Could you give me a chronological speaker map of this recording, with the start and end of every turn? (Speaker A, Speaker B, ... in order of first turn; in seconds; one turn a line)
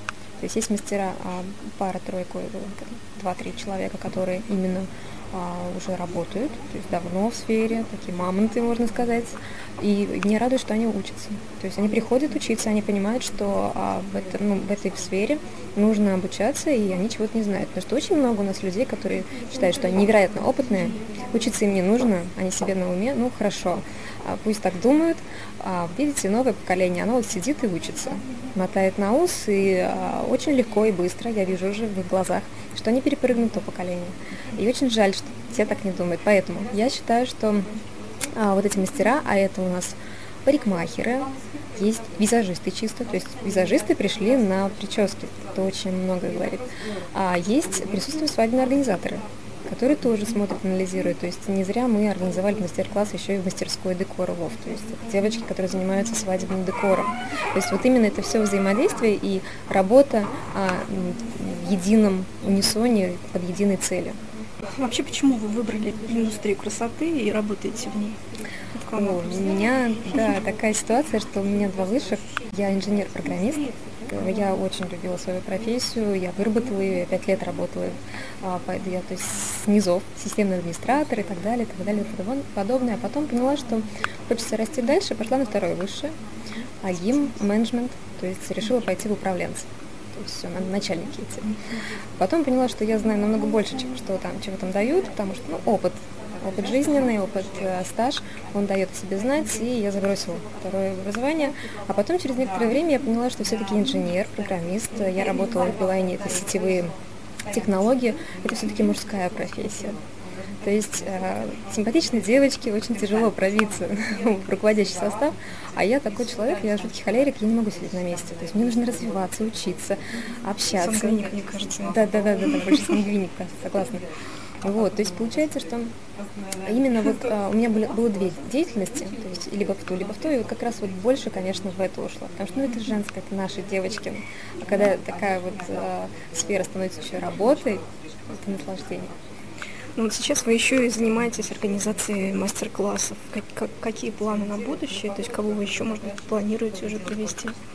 Speaker A: 0.4-37.7
Speaker A: 38.4-64.2
Speaker B: 64.7-68.2
Speaker B: 68.7-69.4
Speaker A: 68.9-86.2
Speaker A: 86.8-91.5
Speaker A: 92.2-106.9
Speaker A: 107.5-110.0
Speaker A: 110.6-121.2
Speaker B: 120.8-122.1
Speaker A: 121.9-124.1
Speaker A: 124.6-125.9
Speaker A: 126.6-139.2
Speaker B: 140.0-147.6